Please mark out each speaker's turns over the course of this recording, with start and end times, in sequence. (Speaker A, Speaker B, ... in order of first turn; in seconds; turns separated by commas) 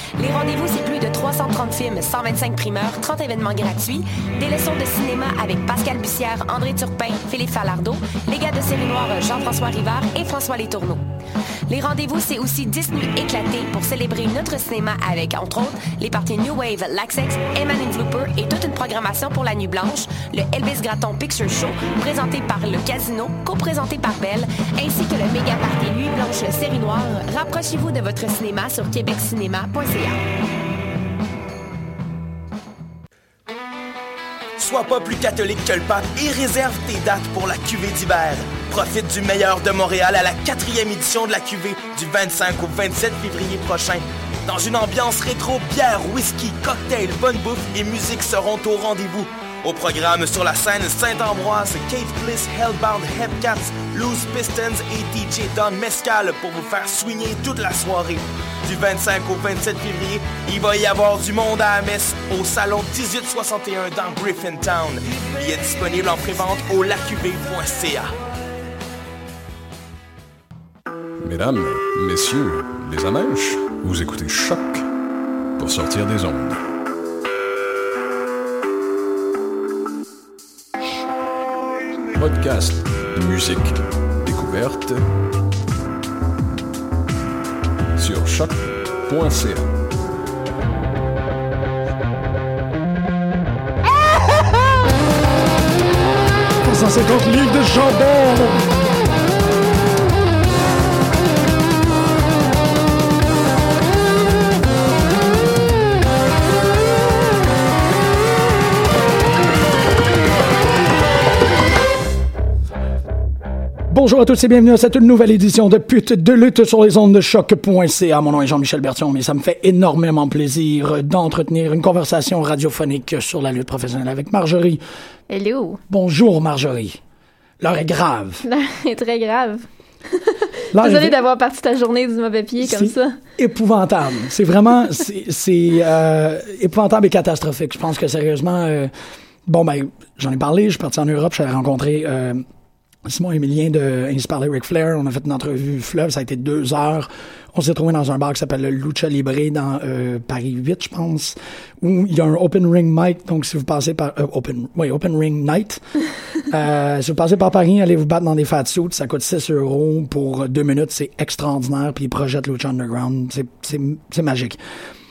Speaker A: 0.2-11.0, Speaker A: 11.7-30.2, Speaker B: 34.6-68.1, Speaker C: 71.2-74.9, Speaker C: 75.6-76.6, Speaker C: 82.2-85.1, Speaker C: 88.0-89.7, Speaker D: 96.6-98.7, Speaker D: 113.9-124.8, Speaker E: 125.3-125.8, Speaker D: 125.9-127.0, Speaker D: 127.6-128.4, Speaker E: 128.4-133.2, Speaker D: 130.7-131.2, Speaker D: 132.6-138.9, Speaker D: 139.4-142.4, Speaker D: 143.1-155.8, Speaker D: 156.5-164.6